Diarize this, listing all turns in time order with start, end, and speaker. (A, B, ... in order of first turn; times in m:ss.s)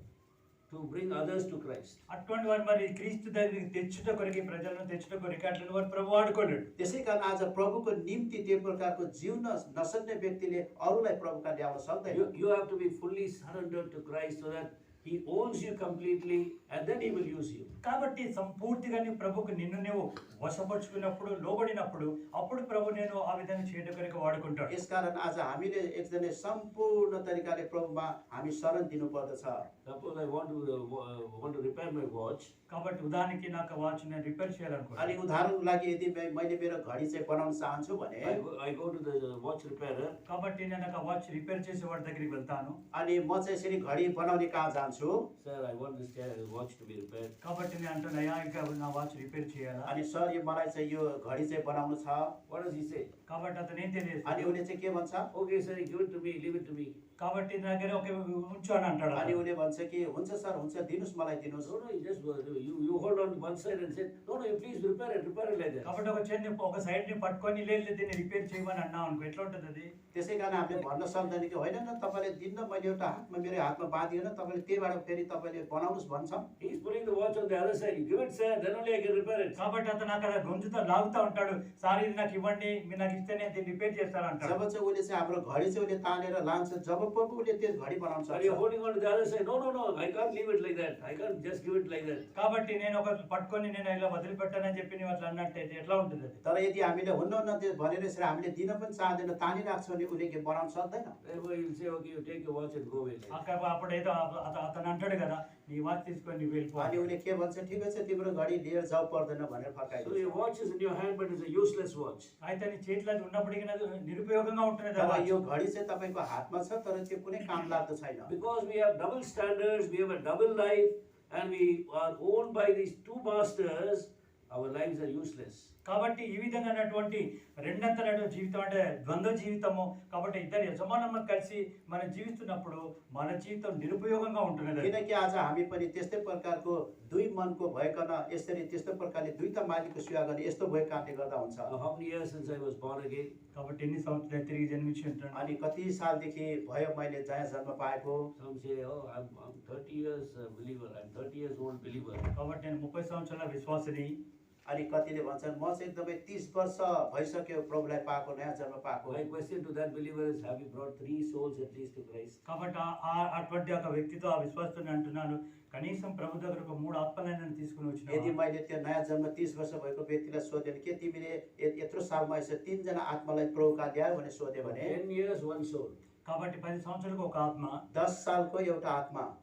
0:00.7-0:02.0 A
0:02.1-0:06.7 B
0:06.8-0:12.2 C
0:12.1-0:17.7 A
0:17.8-0:24.7 B
0:24.7-0:29.6 C
0:29.8-0:32.5 A
0:32.7-0:35.1 B
0:35.0-0:38.4 C
0:38.2-0:40.2 A
0:40.2-0:42.8 B
0:42.9-0:45.2 C
0:45.4-0:47.3 A
0:47.4-0:49.9 B
0:49.8-0:52.3 C
0:52.5-0:53.1 A
0:53.3-0:54.6 B
0:54.2-0:55.3 C
0:55.3-0:56.9 A
0:57.2-0:59.4 B
0:59.1-1:01.7 C
1:01.6-1:05.9 A
1:05.8-1:09.9 B
1:10.1-1:16.4 C
1:16.6-1:19.6 A
1:19.6-1:24.6 B
1:24.4-1:28.6 C
1:28.3-1:32.3 A
1:32.3-1:36.4 B
1:36.4-1:41.2 C
1:41.2-1:43.4 A
1:43.3-1:47.1 B
1:46.8-1:50.4 C
1:49.9-1:52.3 A
1:52.4-1:55.3 B
1:55.0-1:58.3 C
1:58.3-2:05.7 A
2:05.8-2:14.9 B
2:14.8-2:21.7 C
2:21.6-2:23.3 A
2:23.5-2:25.5 B
2:25.3-2:28.3 C
2:28.4-2:32.3 A
2:32.3-2:34.2 B
2:34.6-2:39.2 C
2:39.1-2:42.4 A
2:42.4-2:48.3 B
2:48.1-2:55.0 C
2:54.6-2:56.0 A
2:56.2-2:57.8 B
2:57.9-2:59.3 C